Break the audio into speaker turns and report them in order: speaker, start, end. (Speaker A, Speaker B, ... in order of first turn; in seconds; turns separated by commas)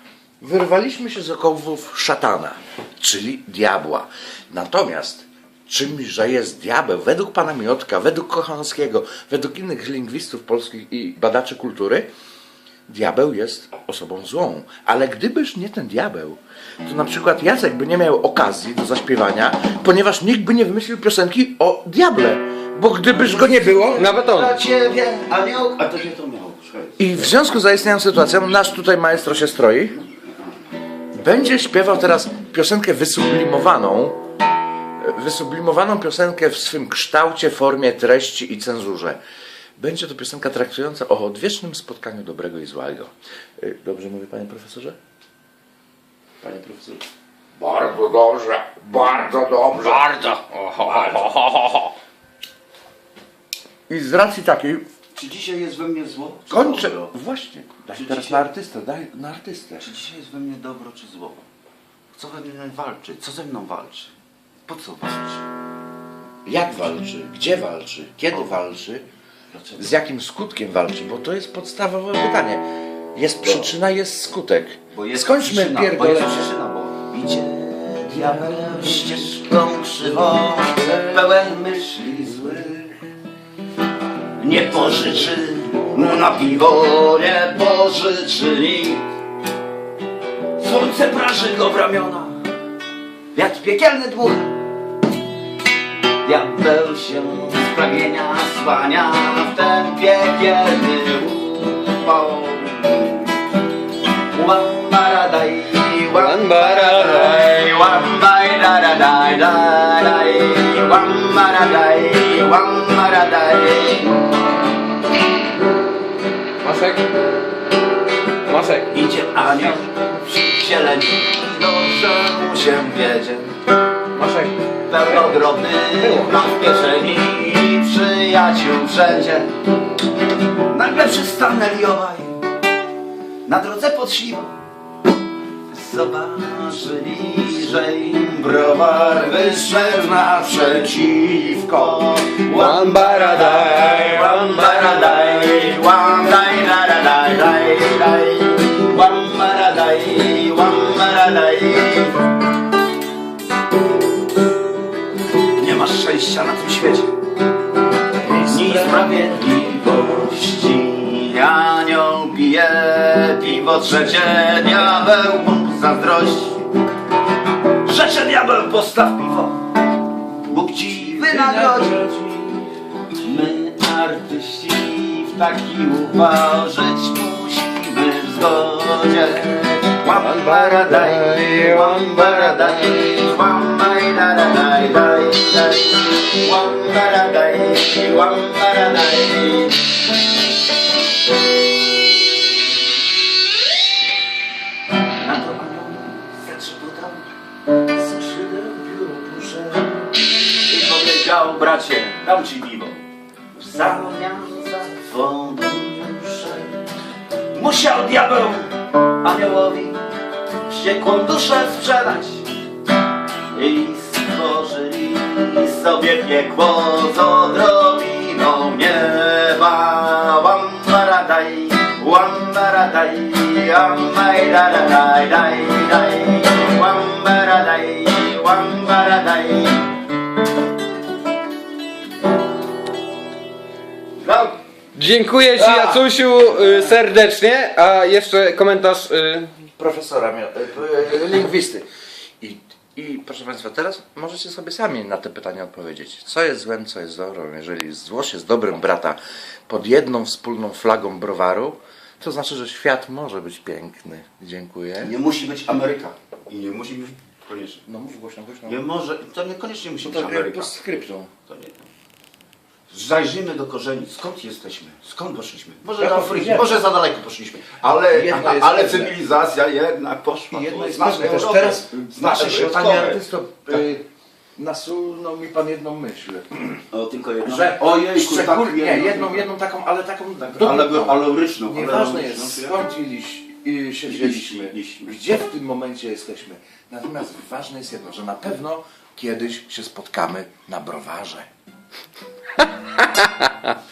Speaker A: 0.4-12.1, Speaker A: 12.9-24.1, Speaker B: 23.1-27.3, Speaker C: 23.9-24.6, Speaker A: 27.0-30.0, Speaker A: 31.1-34.2, Speaker A: 35.0-39.2, Speaker A: 39.8-45.0, Speaker A: 46.4-47.0, Speaker A: 47.6-51.9, Speaker A: 53.9-54.8, Speaker B: 55.1-57.1, Speaker A: 56.5-59.9, Speaker B: 57.9-58.5, Speaker B: 59.8-61.5, Speaker B: 62.1-64.1, Speaker B: 64.7-65.4, Speaker A: 66.5-69.0, Speaker B: 69.5-69.8, Speaker A: 69.8-76.5, Speaker B: 73.4-73.8, Speaker B: 74.9-82.9, Speaker A: 78.1-79.2, Speaker A: 80.8-81.4, Speaker A: 82.4-82.8, Speaker B: 84.4-89.0, Speaker B: 90.6-92.5, Speaker B: 93.3-94.6, Speaker B: 96.2-103.4, Speaker B: 104.3-114.2, Speaker C: 106.1-107.7, Speaker C: 116.6-117.0, Speaker C: 118.5-118.9, Speaker B: 118.9-123.5, Speaker C: 124.2-124.5, Speaker B: 124.9-129.5, Speaker C: 126.0-126.5, Speaker B: 130.7-132.4, Speaker B: 133.5-134.6, Speaker B: 135.7-152.2, Speaker A: 141.6-141.9, Speaker C: 142.5-145.6, Speaker B: 155.6-157.1, Speaker A: 158.1-159.1, Speaker B: 158.5-166.6, Speaker B: 167.8-169.6, Speaker B: 170.4-172.1, Speaker A: 170.8-172.6, Speaker B: 173.2-189.9, Speaker C: 180.2-183.1, Speaker B: 195.2-197.3, Speaker B: 197.9-200.1, Speaker B: 200.7-203.0, Speaker B: 203.5-206.8, Speaker B: 207.5-210.0, Speaker B: 210.7-212.5, Speaker B: 213.5-229.9, Speaker B: 234.2-234.6, Speaker C: 234.9-239.5, Speaker A: 235.6-236.1, Speaker A: 239.8-241.8, Speaker A: 242.4-255.1, Speaker B: 255.0-257.9, Speaker A: 257.9-258.8, Speaker B: 258.7-260.8, Speaker A: 260.0-261.3, Speaker B: 261.5-261.8, Speaker B: 262.9-273.9, Speaker A: 266.0-266.8, Speaker A: 268.0-269.1, Speaker A: 270.5-274.1, Speaker A: 274.6-276.8, Speaker B: 276.9-279.5, Speaker A: 277.4-291.5, Speaker B: 280.6-282.8, Speaker B: 284.1-285.2, Speaker C: 292.6-293.8